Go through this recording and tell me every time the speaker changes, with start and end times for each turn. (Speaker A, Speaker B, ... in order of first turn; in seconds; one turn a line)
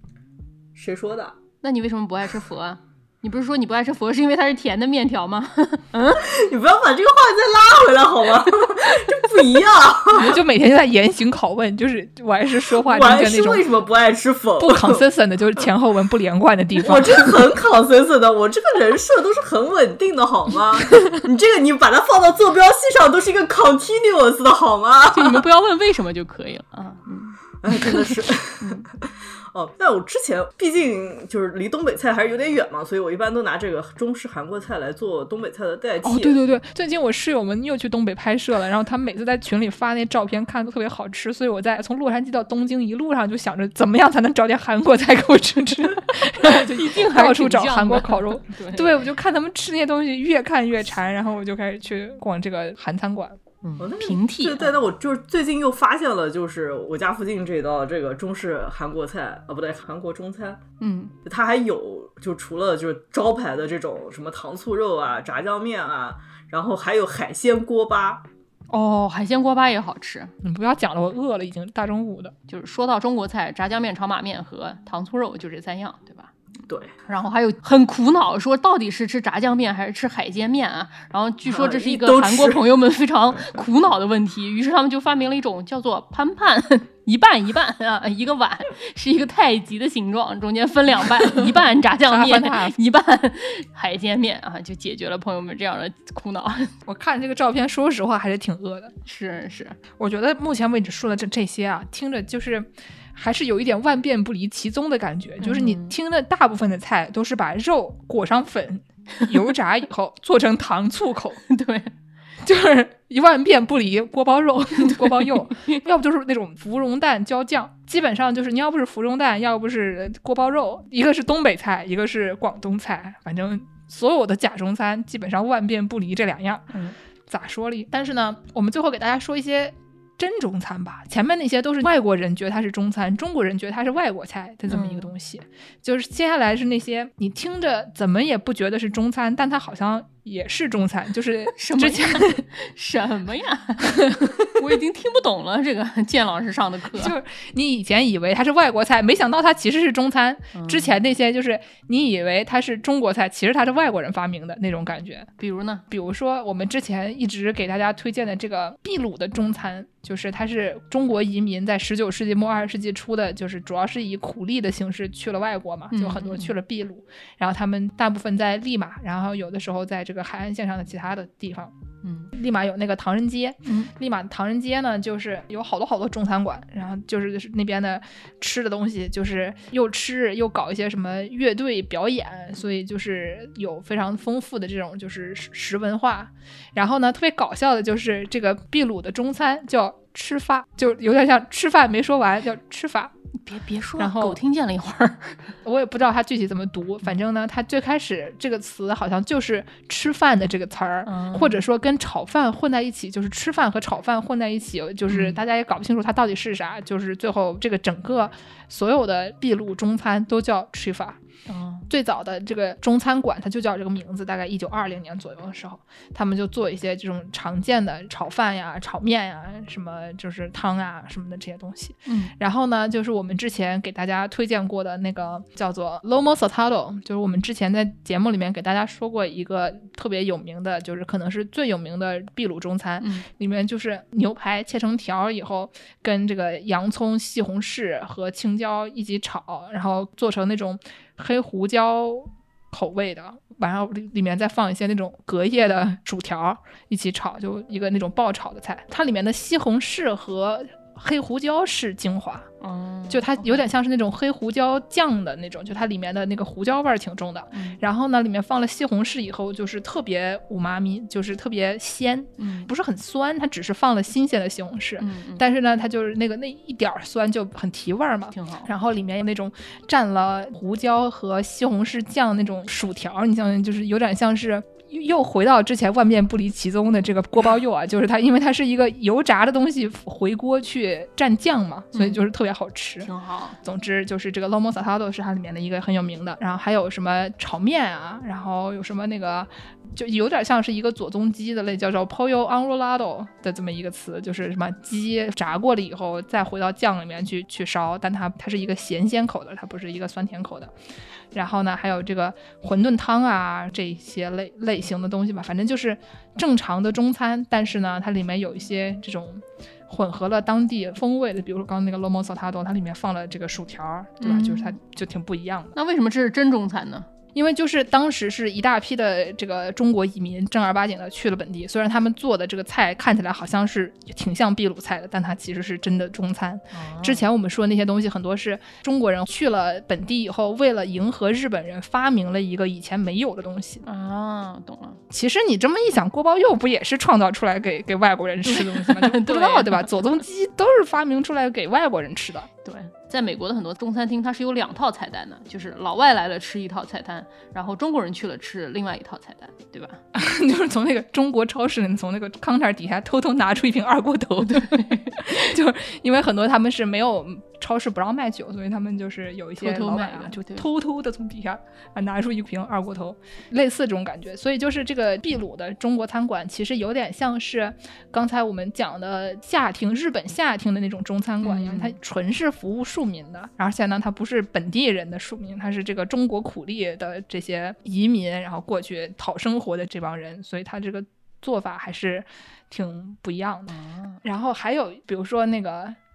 Speaker A: 0.8-1.4
Speaker B: 1.6-6.2
Speaker A: 6.2-10.3
Speaker B: 8.8-9.3
Speaker C: 10.2-13.7
Speaker A: 12.7-15.1
Speaker C: 14.6-17.3
Speaker A: 16.8-25.4
Speaker B: 25.1-27.4
Speaker A: 27.6-36.4
Speaker B: 28.6-28.9
Speaker C: 36.0-53.4
Speaker B: 46.4-49.0
Speaker B: 53.6-54.8
Speaker A: 53.8-60.6
Speaker B: 60.8-61.1
Speaker A: 61.2-68.2
Speaker B: 68.7-70.3
Speaker C: 70.4-72.3
Speaker B: 72.5-76.3
Speaker A: 76.7-76.9
Speaker B: 77.1-96.7
Speaker A: 81.5-82.7
Speaker C: 92.1-92.8
Speaker C: 96.9-98.9
Speaker B: 99.0-99.8
Speaker C: 100.0-111.4
Speaker B: 105.4-106.0
Speaker B: 111.5-111.9
Speaker C: 112.4-126.7
Speaker B: 114.8-115.8
Speaker B: 126.7-127.0
Speaker C: 127.3-142.4
Speaker B: 134.7-135.1
Speaker B: 141.6-147.2
Speaker C: 143.8-144.5
Speaker C: 146.9-155.3
Speaker B: 150.5-151.0
Speaker B: 155.4-155.8
Speaker C: 155.9-171.7
Speaker B: 165.9-166.5
Speaker B: 172.0-172.3
Speaker C: 172.3-193.1
Speaker B: 173.7-173.9
Speaker B: 193.4-195.6
Speaker C: 194.0-194.4
Speaker C: 195.6-211.2
Speaker B: 201.1-201.6
Speaker B: 205.1-205.4
Speaker B: 211.5-211.9
Speaker C: 211.9-252.5
Speaker B: 222.1-222.3
Speaker B: 233.0-233.3
Speaker B: 252.6-253.6
Speaker C: 253.1-283.1
Speaker B: 257.5-257.8
Speaker B: 262.4-262.7
Speaker B: 265.0-265.4
Speaker B: 268.3-268.7
Speaker B: 281.9-282.2
Speaker B: 283.0-283.6
Speaker C: 283.6-300.7
Speaker C: 301.3-315.8
Speaker B: 314.2-314.8
Speaker B: 315.8-317.1
Speaker C: 317.4-333.8
Speaker B: 326.7-327.3
Speaker B: 333.8-335.0
Speaker C: 335.1-342.5
Speaker B: 338.4-339.9
Speaker B: 342.6-350.0
Speaker C: 350.1-386.0
Speaker B: 354.5-355.5
Speaker B: 359.6-360.7
Speaker B: 371.4-372.0
Speaker B: 383.7-384.2